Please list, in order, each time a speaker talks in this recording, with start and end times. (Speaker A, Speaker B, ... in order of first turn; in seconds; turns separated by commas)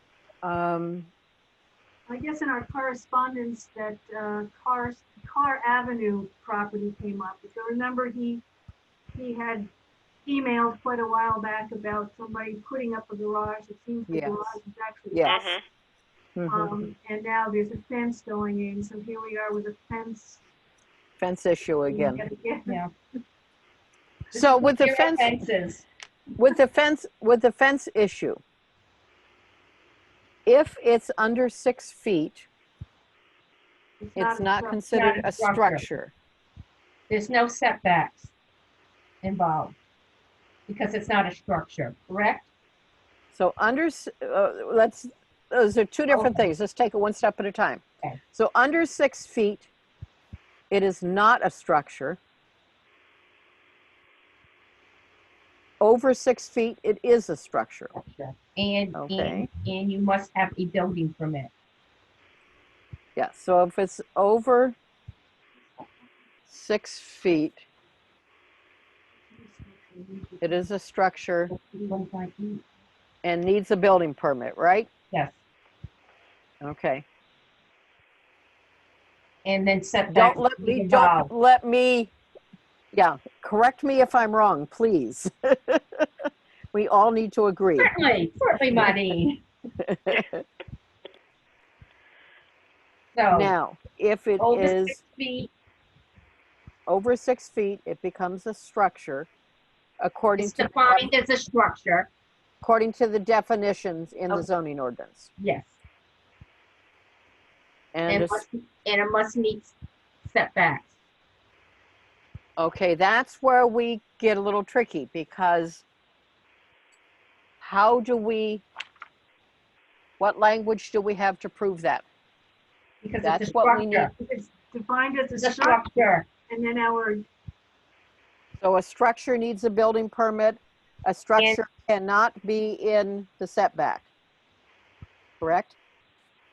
Speaker A: 0.4-1.1, Speaker B: 2.1-8.4, Speaker B: 9.1-9.7, Speaker B: 10.2-15.5, Speaker A: 14.1-14.6, Speaker A: 15.1-15.4, Speaker A: 16.4-16.8, Speaker B: 16.5-20.4, Speaker A: 21.2-22.2, Speaker B: 21.9-22.8, Speaker A: 24.3-25.4, Speaker C: 24.3-25.8, Speaker A: 26.4-28.4, Speaker A: 30.4-32.5, Speaker B: 34.0-34.9, Speaker A: 34.1-36.1, Speaker C: 34.9-35.9, Speaker C: 37.1-38.3, Speaker C: 39.2-39.8, Speaker C: 40.7-42.5, Speaker A: 43.3-47.8, Speaker C: 46.1-46.5, Speaker A: 48.3-49.7, Speaker A: 50.7-52.2, Speaker A: 55.8-57.9, Speaker C: 57.9-61.5, Speaker A: 58.9-59.5, Speaker A: 63.1-64.8, Speaker A: 66.5-67.6, Speaker B: 69.3-70.6, Speaker A: 70.4-71.5, Speaker C: 71.5-72.6, Speaker A: 73.2-74.9, Speaker A: 76.6-77.0, Speaker C: 79.4-81.3, Speaker A: 80.1-82.1, Speaker A: 82.9-86.1, Speaker A: 86.7-87.9, Speaker C: 87.8-89.4, Speaker A: 89.8-90.4, Speaker C: 93.1-93.5, Speaker A: 93.3-95.0, Speaker C: 94.4-95.5, Speaker A: 96.9-99.3, Speaker A: 100.0-101.1, Speaker C: 100.4-102.1, Speaker A: 102.6-105.3, Speaker C: 105.4-105.7, Speaker A: 107.9-108.4, Speaker C: 108.1-110.9, Speaker A: 112.6-115.8, Speaker A: 117.6-118.6, Speaker A: 120.2-122.0, Speaker C: 123.0-124.1, Speaker A: 123.2-124.1, Speaker B: 124.2-127.2, Speaker C: 125.4-126.2, Speaker A: 128.6-134.1, Speaker C: 131.4-131.6, Speaker A: 135.4-135.8